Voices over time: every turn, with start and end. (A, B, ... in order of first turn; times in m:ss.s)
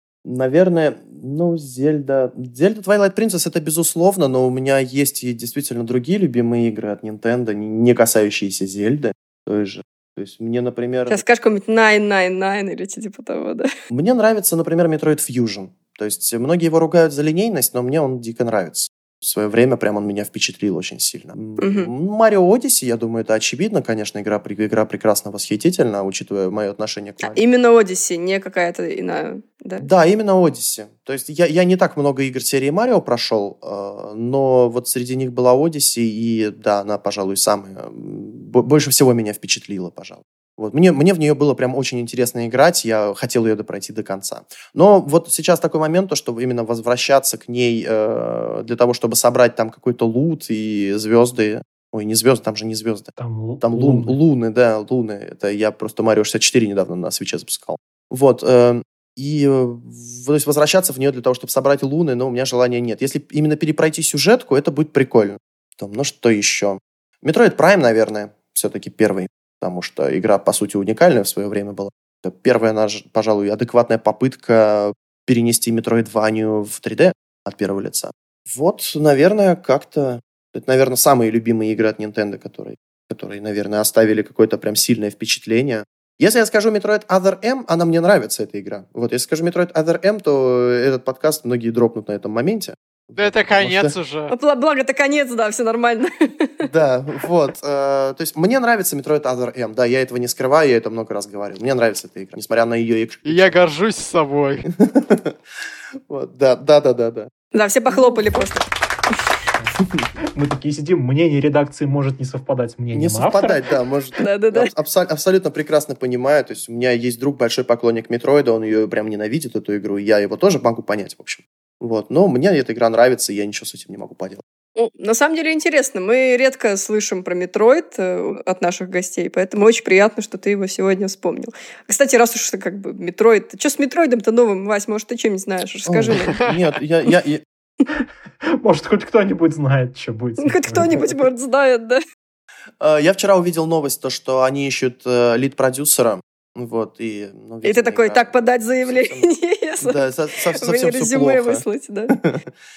0:00.2-0:11.2 A
0:11.1-0:13.7 B
0:13.9-0:27.4 A
0:21.6-0:21.9 B
0:27.2-0:29.9 B
0:29.8-0:53.1 A
0:53.2-0:54.2 C
0:53.6-1:33.9 A
1:33.2-1:34.3 D
1:34.3-1:36.7 B
1:36.6-1:43.6 A
1:43.2-1:44.7 D
1:44.8-1:45.4 A
1:46.1-1:47.3 A
1:47.5-1:48.7 B
1:47.9-1:48.4 A
1:50.3-1:53.6 C
1:52.9-2:04.4 A
1:54.2-1:54.7 B
2:04.8-2:16.4 B
2:15.9-2:17.4 A
2:16.2-2:16.6 D
2:18.6-2:21.2 C
2:20.4-2:22.0 B
2:22.8-2:29.3 A
2:27.6-2:30.0 B
2:29.8-2:32.4 A
2:30.6-2:32.2 B